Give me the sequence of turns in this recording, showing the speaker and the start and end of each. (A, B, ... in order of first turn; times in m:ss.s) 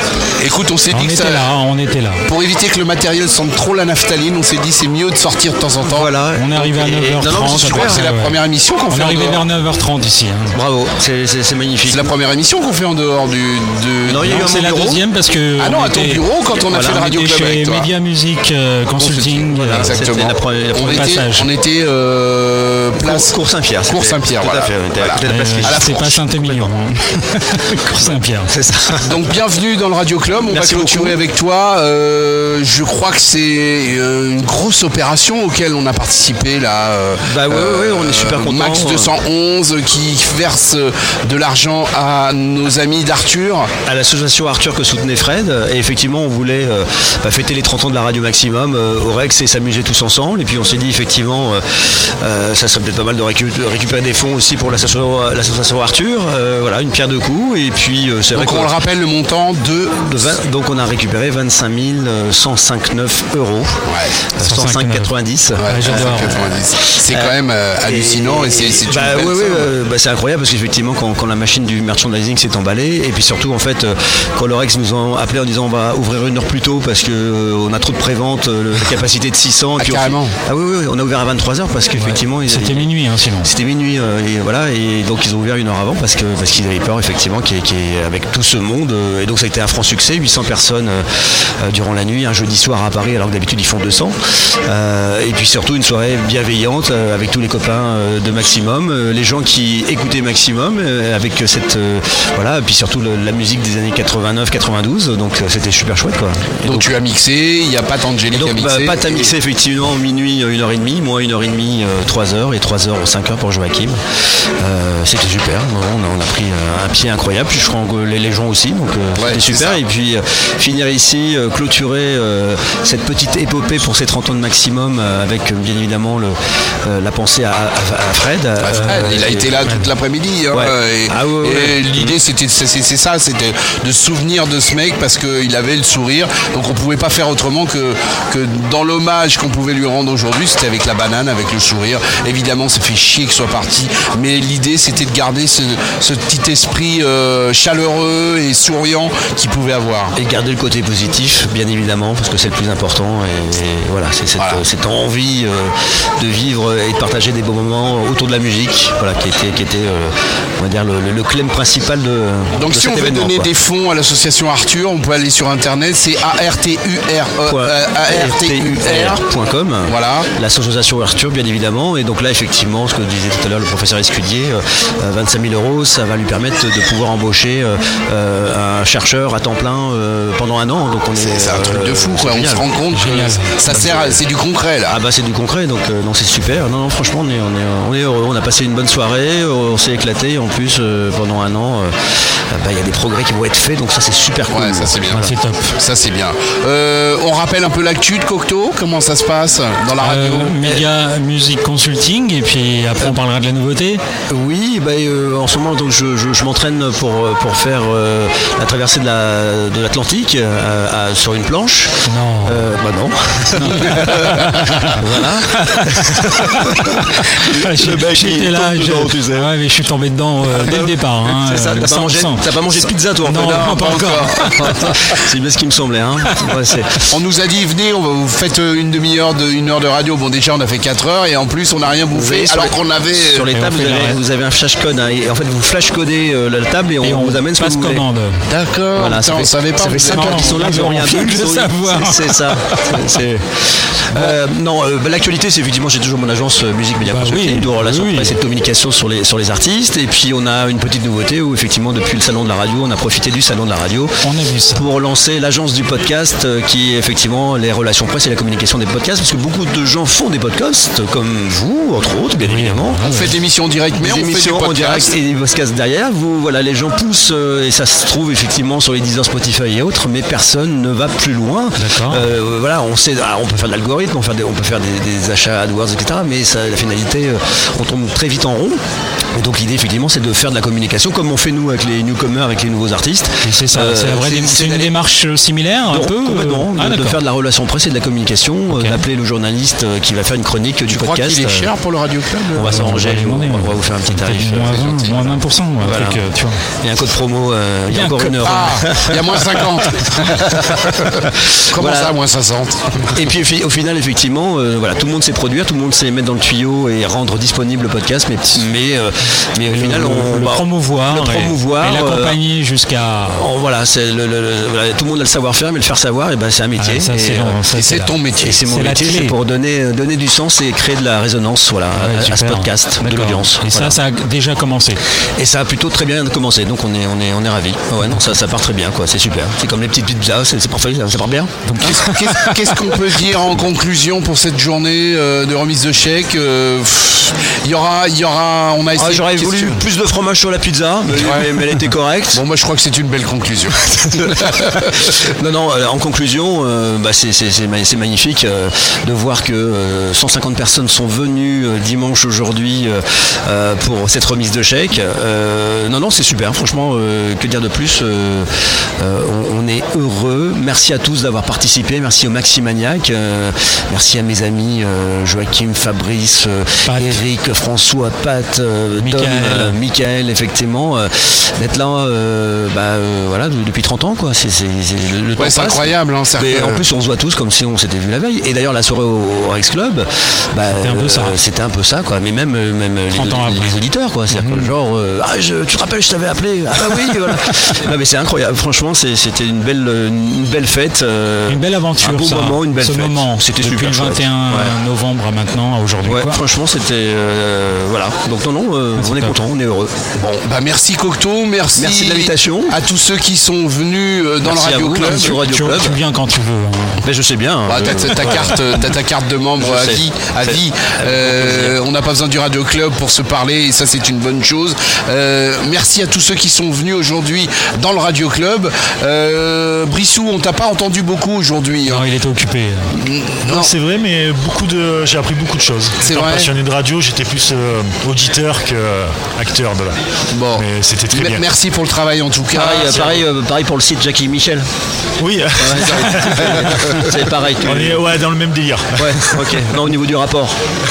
0:00.4-0:01.5 A
0:00.9-0:02.2 B
0:02.2-0:06.1 A
0:05.8-0:08.0 C
0:06.3-0:10.6 B
0:07.5-0:09.5 A
0:10.5-0:12.1 C
0:11.9-0:14.6 A
0:14.1-0:15.0 C
0:14.2-0:16.2 B
0:15.6-0:17.9 A
0:16.7-0:17.1 C
0:16.8-0:20.0 B
0:19.0-0:26.2 A
0:19.4-0:21.2 C
0:20.8-0:21.5 B
0:23.0-0:26.7 C
0:25.2-0:28.5 B
0:27.7-0:29.1 C
0:29.0-0:43.7 A
0:30.5-0:31.2 C
0:37.3-0:39.1 C
0:43.8-0:58.7 C
0:58.3-1:00.2 A
1:00.1-1:03.8 C
1:03.9-1:04.1 A
1:04.4-1:06.5 C
1:04.4-1:05.1 B
1:05.6-1:09.7 A
1:05.6-1:06.4 B
1:07.1-1:46.9 C
1:19.8-1:20.4 A
1:21.9-1:23.5 B
1:46.6-1:49.3 A
1:48.3-1:54.0 C
1:54.6-2:09.6 C
1:59.1-1:59.8 A
2:08.6-2:30.2 A
2:08.8-2:09.9 B
2:10.5-2:12.2 C
2:30.1-2:43.5 C
2:34.4-2:34.6 A
2:42.5-2:49.2 A
2:47.5-3:02.7 C
2:49.9-2:50.3 A
3:01.1-3:05.0 A
3:02.9-3:03.6 B
3:03.6-3:04.2 C
3:04.8-3:15.3 C
3:14.5-3:20.6 A
3:15.1-3:15.8 B
3:20.0-3:24.0 B
3:24.3-3:39.5 C
3:32.0-3:32.8 B
3:33.5-3:45.2 B
3:40.5-3:47.0 C
3:43.4-3:44.8 A
3:47.1-3:53.5 A
3:52.1-3:58.1 C
3:53.4-3:54.2 B
3:57.0-3:58.4 B
3:58.4-4:00.8 A
3:58.9-4:23.0 C
3:59.8-4:03.2 B
4:07.0-4:08.4 B
4:14.2-4:14.8 B
4:22.4-4:23.4 B
4:23.0-4:25.1 A
4:24.0-4:38.8 C
4:31.8-4:32.2 B
4:39.3-4:44.9 C
4:43.4-4:47.2 B
4:45.9-4:51.7 C
4:48.7-4:49.0 B
4:50.8-4:52.7 A
4:52.5-4:56.2 C
4:52.6-4:56.6 B
4:56.8-4:59.2 C
4:57.9-4:59.7 B
4:58.4-5:03.2 A
5:01.7-5:02.2 C
5:03.1-5:12.4 C
5:09.7-5:13.4 B
5:13.2-5:17.6 C
5:16.8-5:19.3 B
5:17.7-5:18.6 A
5:18.4-5:24.0 C
5:21.9-5:25.0 B
5:25.4-5:32.5 C
5:31.6-5:32.5 B
5:31.8-5:39.8 A
5:39.0-5:42.4 C
5:41.1-5:41.8 A
5:42.3-5:44.9 A
5:44.0-6:34.8 C
6:06.8-6:07.2 B
6:09.0-6:09.8 B
6:15.4-6:16.8 A
6:20.7-6:21.4 B
6:23.1-6:23.8 B
6:24.3-6:24.7 B
6:31.5-6:36.4 B
6:36.0-6:40.1 C
6:39.0-6:39.4 B
6:40.2-6:45.4 A
6:41.8-6:42.8 C
6:44.4-6:46.0 C
6:45.0-6:47.0 B
6:47.0-6:48.6 C
6:47.7-7:02.0 A
6:48.2-6:48.8 B
6:49.6-6:51.8 C
7:01.8-7:03.0 B
7:02.9-7:03.7 A
7:03.4-7:10.0 D
7:06.0-7:06.5 A
7:10.3-7:13.2 A
7:10.5-7:11.4 D
7:12.5-7:14.7 C
7:15.2-7:19.6 D
7:15.6-7:18.1 C
7:15.7-7:17.0 A
7:19.0-7:20.6 C